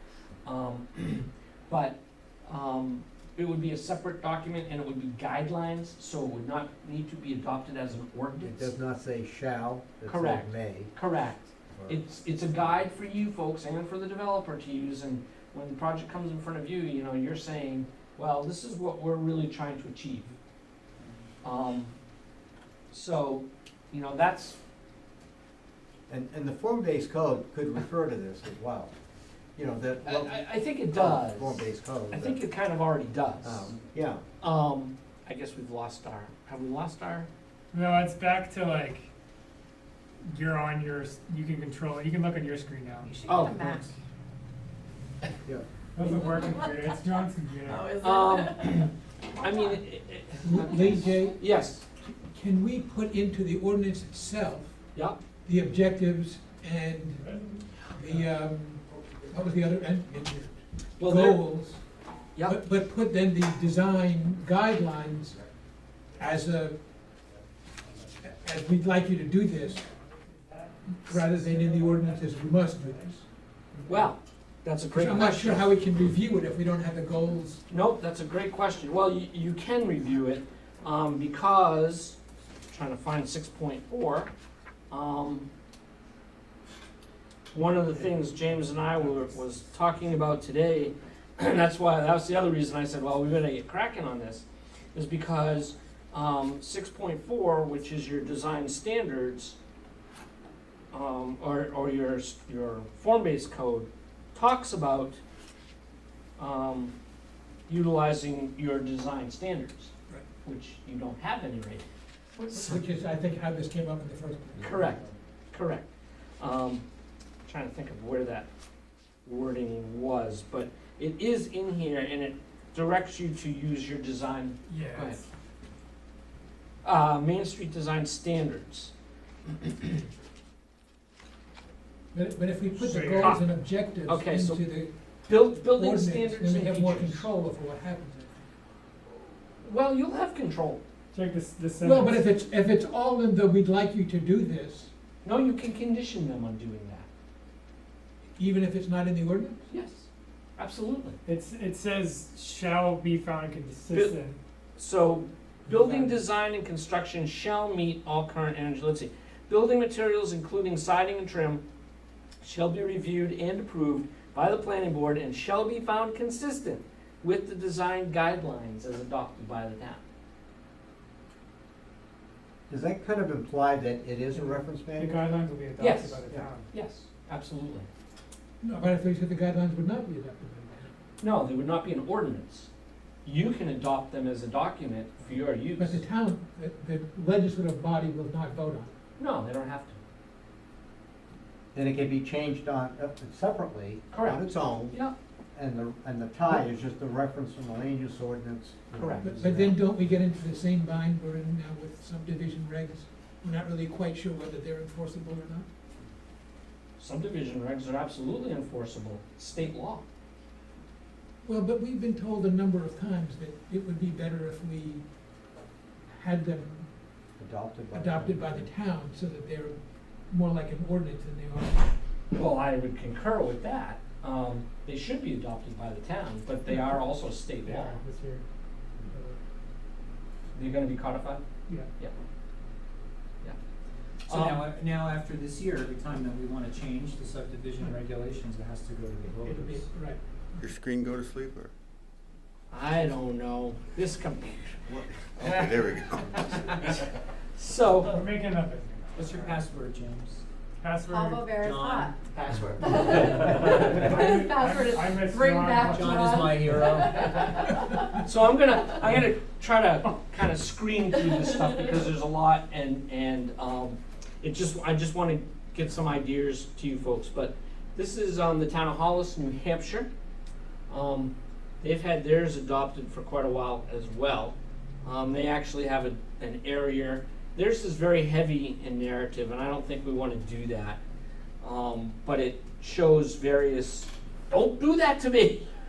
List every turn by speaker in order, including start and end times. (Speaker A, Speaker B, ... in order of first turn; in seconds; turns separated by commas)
Speaker A: 0.4-8.7, Speaker B: 8.4-10.9, Speaker A: 10.1-20.3, Speaker B: 11.8-12.0, Speaker A: 21.4-21.9, Speaker A: 22.9-24.6, Speaker B: 26.1-28.9, Speaker B: 29.6-32.4, Speaker A: 30.0-33.8, Speaker B: 33.4-34.2, Speaker A: 34.4-37.3, Speaker C: 37.7-39.1, Speaker C: 40.2-43.1, Speaker D: 43.0-43.9, Speaker A: 43.3-43.8, Speaker B: 43.3-43.8, Speaker C: 45.9-48.0, Speaker D: 46.2-46.7, Speaker D: 47.6-49.8, Speaker A: 48.0-51.8, Speaker E: 50.4-51.4, Speaker E: 52.0-54.8, Speaker E: 55.4-57.2, Speaker C: 57.2-58.2, Speaker E: 57.9-61.8, Speaker A: 61.0-61.4, Speaker E: 62.4-65.4, Speaker E: 66.2-66.8, Speaker E: 68.2-69.9, Speaker C: 69.5-73.2, Speaker E: 71.0-73.2, Speaker C: 73.7-74.0, Speaker A: 73.8-75.7, Speaker E: 74.9-77.6, Speaker A: 77.7-82.2, Speaker A: 82.7-84.3, Speaker A: 84.9-85.5, Speaker A: 87.5-99.6, Speaker A: 100.9-105.2, Speaker A: 106.4-106.9, Speaker A: 107.7-111.8, Speaker A: 112.5-112.7, Speaker E: 112.5-114.9, Speaker A: 114.6-115.9, Speaker A: 116.4-116.8, Speaker A: 117.5-118.5, Speaker A: 119.2-125.2, Speaker C: 124.7-125.2, Speaker A: 126.8-128.9, Speaker E: 132.1-134.9, Speaker C: 132.8-133.4, Speaker A: 133.2-133.5, Speaker A: 134.1-134.6, Speaker A: 135.3-137.3, Speaker E: 135.5-138.5, Speaker A: 139.5-140.8, Speaker C: 141.1-142.2, Speaker E: 141.8-144.9, Speaker A: 145.2-147.1, Speaker E: 148.4-149.7, Speaker A: 149.7-151.2, Speaker C: 151.2-154.4, Speaker A: 153.9-154.2, Speaker A: 154.8-161.6, Speaker C: 155.7-156.1, Speaker A: 162.4-170.0, Speaker B: 172.7-175.2, Speaker C: 174.3-176.7, Speaker A: 175.8-176.2, Speaker A: 176.7-177.9, Speaker E: 178.6-180.9, Speaker A: 181.2-182.7, Speaker A: 183.2-186.0, Speaker E: 185.8-188.9, Speaker A: 189.2-190.0, Speaker B: 191.7-195.0, Speaker A: 194.1-195.1, Speaker B: 195.5-199.8, Speaker A: 198.9-199.3, Speaker E: 199.2-205.7, Speaker A: 207.0-210.0, Speaker E: 211.4-215.0, Speaker E: 216.1-216.9, Speaker B: 217.4-218.7, Speaker E: 217.9-219.8, Speaker E: 220.3-221.9, Speaker A: 222.3-228.0, Speaker C: 226.7-227.0, Speaker C: 227.6-228.4, Speaker C: 229.1-229.4, Speaker A: 230.5-231.4, Speaker A: 234.3-234.7, Speaker F: 234.3-239.8, Speaker E: 239.4-240.2, Speaker G: 240.6-241.7, Speaker A: 242.7-244.8, Speaker G: 244.9-247.1, Speaker A: 245.4-248.2, Speaker C: 248.1-249.6, Speaker F: 249.1-250.4, Speaker C: 250.8-251.6, Speaker D: 251.1-258.2, Speaker F: 251.6-253.9, Speaker C: 253.1-256.8, Speaker F: 255.9-257.1, Speaker A: 257.1-270.1, Speaker A: 270.9-281.0, Speaker A: 281.6-285.7